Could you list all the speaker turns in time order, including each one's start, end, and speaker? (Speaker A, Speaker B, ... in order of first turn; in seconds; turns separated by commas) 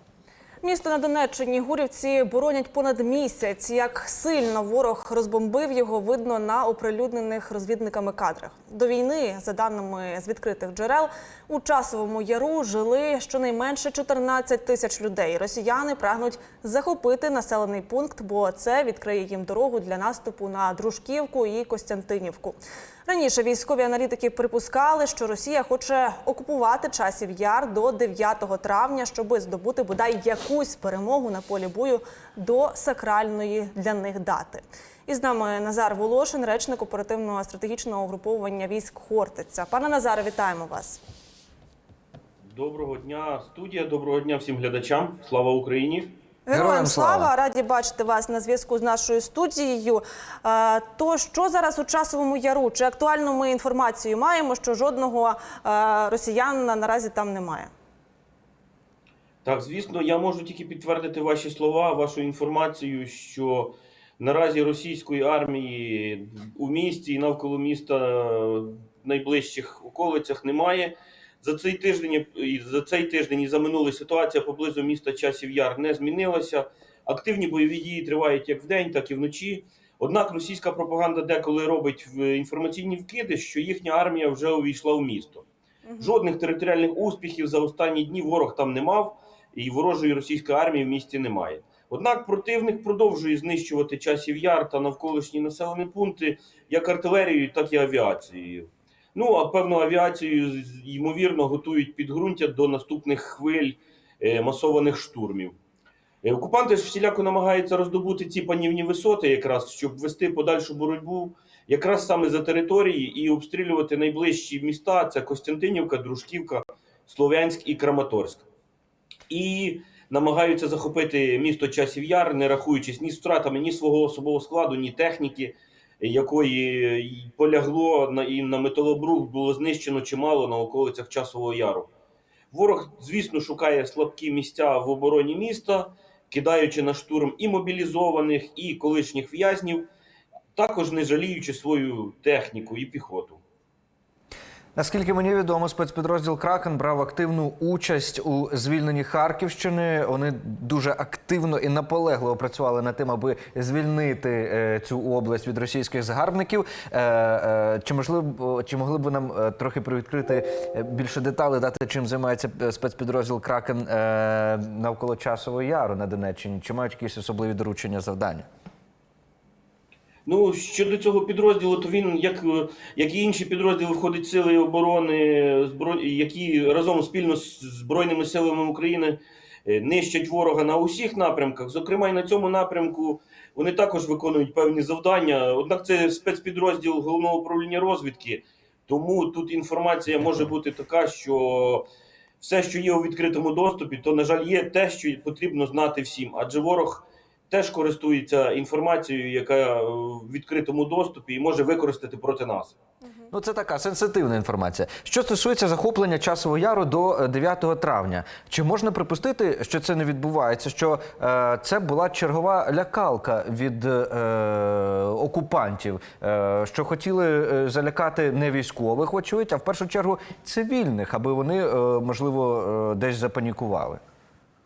Speaker A: 0.6-41.0, Speaker B: 42.5-46.2, Speaker A: 46.5-57.7, Speaker C: 46.5-47.3, Speaker B: 59.4-85.5, Speaker A: 85.9-86.2, Speaker B: 86.0-105.6, Speaker B: 106.2-118.5, Speaker B: 119.3-131.9, Speaker B: 132.5-139.9, Speaker B: 140.6-143.4, Speaker C: 144.8-168.5, Speaker B: 170.3-191.9, Speaker B: 192.4-202.8, Speaker C: 203.3-224.0